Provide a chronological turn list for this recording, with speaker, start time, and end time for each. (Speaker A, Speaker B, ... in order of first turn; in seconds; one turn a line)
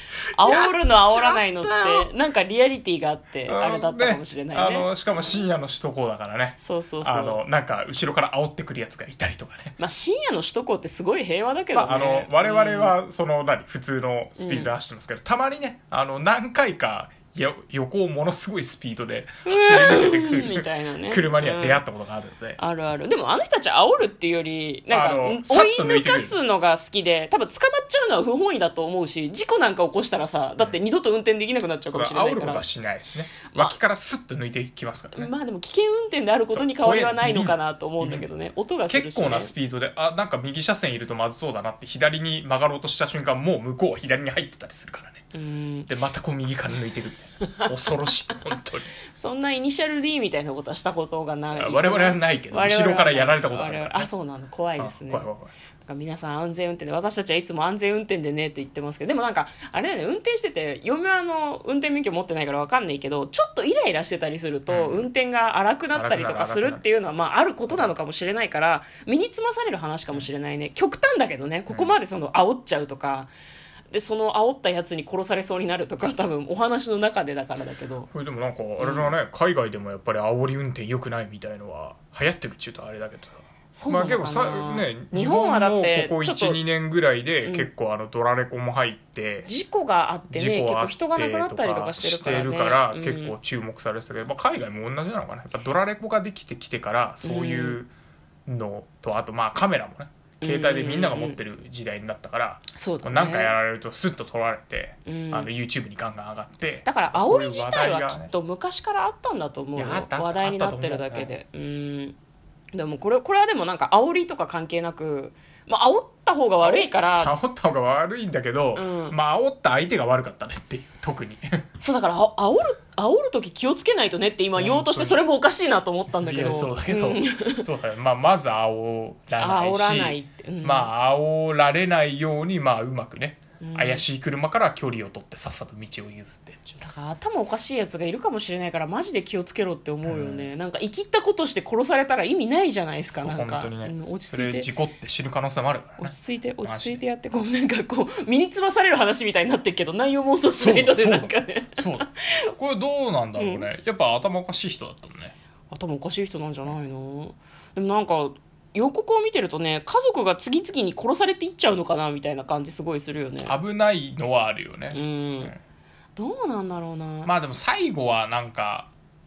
Speaker A: 0.3-5.4
Speaker B: 0.4-2.1
Speaker B: 3.5-9.8
Speaker A: 6.6-7.4
Speaker A: 9.8-13.0
Speaker B: 11.7-22.6
Speaker A: 14.4-14.7
Speaker A: 19.5-21.8
Speaker A: 22.6-32.6
Speaker B: 24.9-26.4
Speaker B: 31.9-35.3
Speaker A: 33.5-33.8
Speaker A: 35.1-39.5
Speaker B: 36.5-38.3
Speaker B: 38.9-45.2
Speaker A: 45.3-45.9
Speaker B: 45.9-48.9
Speaker A: 47.4-47.7
Speaker A: 49.1-55.3
Speaker B: 51.5-54.1
Speaker B: 54.8-55.5
Speaker A: 55.8-73.3
Speaker B: 64.7-65.1
Speaker B: 65.9-66.8
Speaker B: 71.7-72.0
Speaker A: 73.9-78.1
Speaker B: 78.1-89.5
Speaker A: 78.8-79.2
Speaker A: 83.8-86.6
Speaker A: 87.4-87.7
Speaker A: 89.5-93.3
Speaker B: 90.3-97.9
Speaker A: 97.2-97.8
Speaker B: 98.5-108.3
Speaker A: 100.4-101.4
Speaker A: 102.8-103.5
Speaker A: 105.1-105.5
Speaker A: 106.8-112.2
Speaker B: 109.8-111.3
Speaker A: 112.7-117.3
Speaker B: 116.6-121.6
Speaker A: 118.8-119.2
Speaker A: 121.8-127.7
Speaker B: 124.6-125.2
Speaker B: 126.1-136.8
Speaker A: 129.4-130.9
Speaker A: 133.6-134.1
Speaker A: 136.8-144.7
Speaker B: 140.0-140.5
Speaker B: 143.2-146.1
Speaker A: 146.0-152.3
Speaker B: 146.6-147.0
Speaker B: 150.6-155.4
Speaker A: 153.4-153.7
Speaker A: 155.7-163.6
Speaker B: 163.4-165.6
Speaker A: 164.9-165.5
Speaker A: 166.2-167.3
Speaker B: 167.2-168.9